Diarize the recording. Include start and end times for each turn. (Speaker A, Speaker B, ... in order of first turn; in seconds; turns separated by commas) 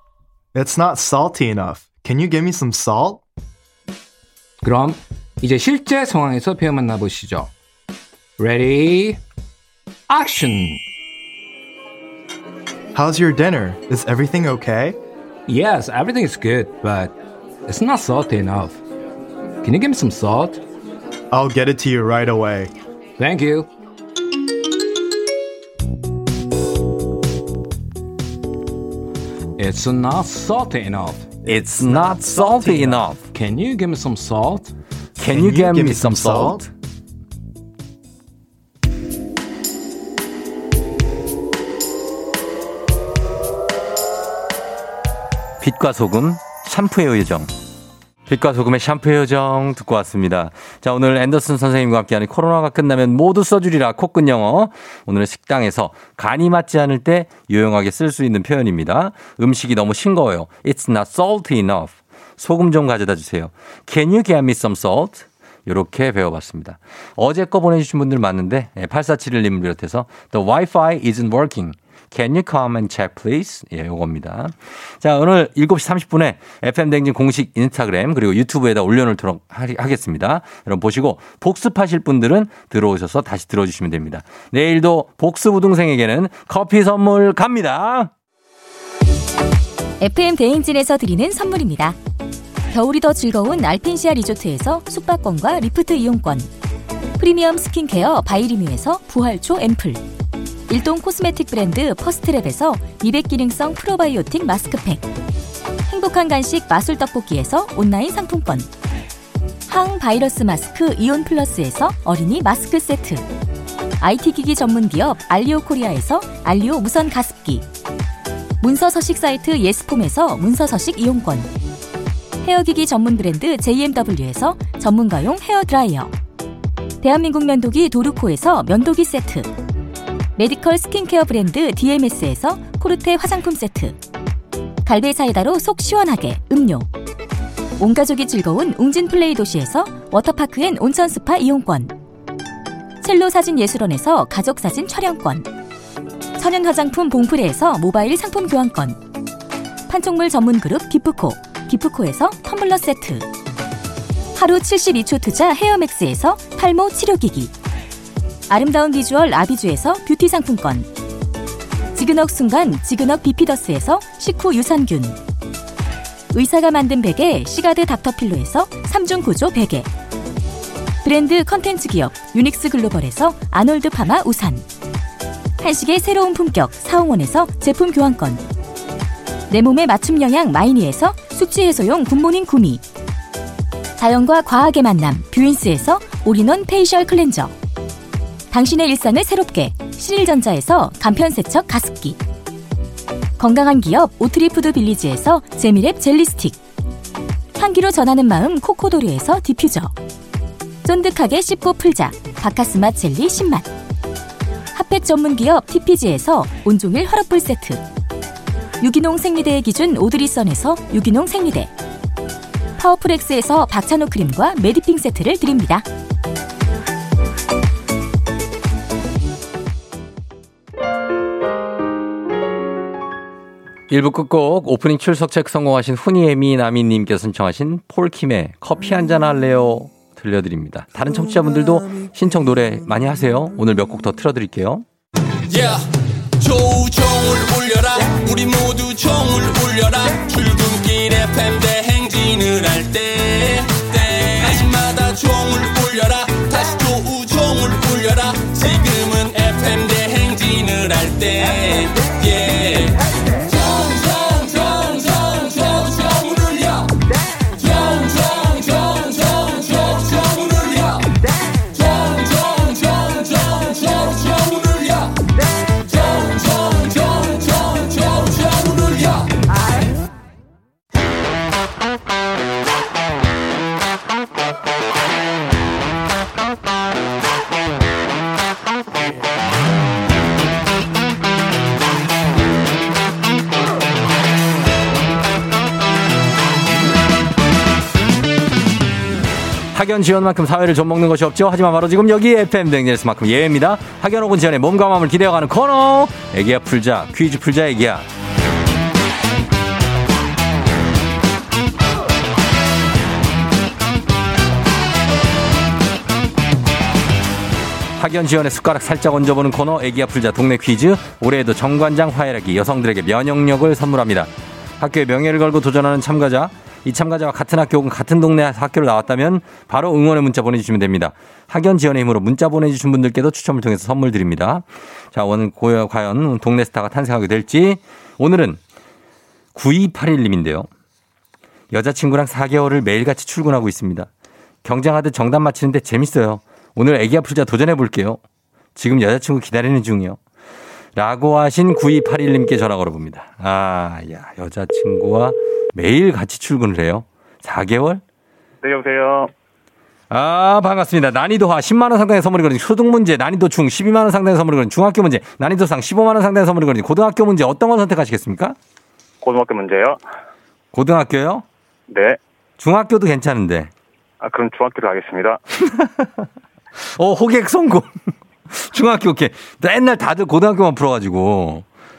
Speaker A: 0.5-3.2, Speaker B: 4.6-7.5, Speaker B: 8.4-9.2, Speaker B: 10.1-10.8, Speaker A: 12.9-15.0, Speaker B: 15.5-18.8, Speaker B: 19.6-20.6, Speaker A: 21.3-22.7, Speaker B: 23.2-23.7, Speaker B: 29.6-31.3, Speaker C: 31.4-33.2, Speaker B: 32.4-34.7, Speaker C: 35.2-36.7, Speaker A: 35.3-36.6, Speaker C: 45.6-47.5, Speaker C: 48.3-88.1, Speaker D: 90.0-92.0, Speaker D: 92.7-96.5, Speaker D: 97.2-100.0, Speaker D: 100.7-105.0, Speaker D: 105.9-108.7, Speaker D: 109.7-113.2, Speaker D: 114.0-117.6, Speaker D: 118.6-121.5, Speaker D: 122.4-126.1, Speaker D: 127.0-129.5, Speaker D: 130.4-133.9, Speaker D: 134.8-136.9, Speaker D: 137.8-141.9, Speaker D: 143.0-145.5, Speaker D: 146.4-149.0, Speaker D: 149.9-153.3, Speaker D: 154.3-157.5, Speaker D: 158.5-160.9, Speaker D: 161.9-165.2, Speaker D: 166.3-169.9, Speaker D: 171.0-174.6, Speaker D: 175.6-178.4, Speaker D: 179.5-182.8, Speaker D: 184.0-187.5, Speaker D: 188.5-192.2, Speaker D: 193.4-196.6, Speaker D: 197.6-199.9, Speaker D: 200.8-203.7, Speaker D: 204.7-207.8, Speaker D: 208.8-211.7, Speaker D: 212.8-215.8, Speaker C: 223.9-234.8, Speaker E: 235.5-235.8, Speaker E: 236.4-257.0, Speaker E: 257.5-261.1, Speaker E: 261.7-265.2, Speaker E: 265.8-269.3, Speaker C: 289.7-298.1, Speaker C: 307.9-328.6, Speaker C: 329.5-330.7, Speaker C: 331.7-334.1, Speaker C: 334.6-338.2, Speaker C: 338.8-340.2, Speaker C: 340.9-348.0, Speaker F: 348.6-349.3, Speaker C: 350.1-358.6, Speaker F: 359.2-360.0, Speaker C: 360.7-361.4, Speaker F: 361.9-362.2, Speaker C: 362.6-363.7, Speaker F: 364.2-365.4, Speaker C: 365.6-366.3, Speaker C: 366.9-371.6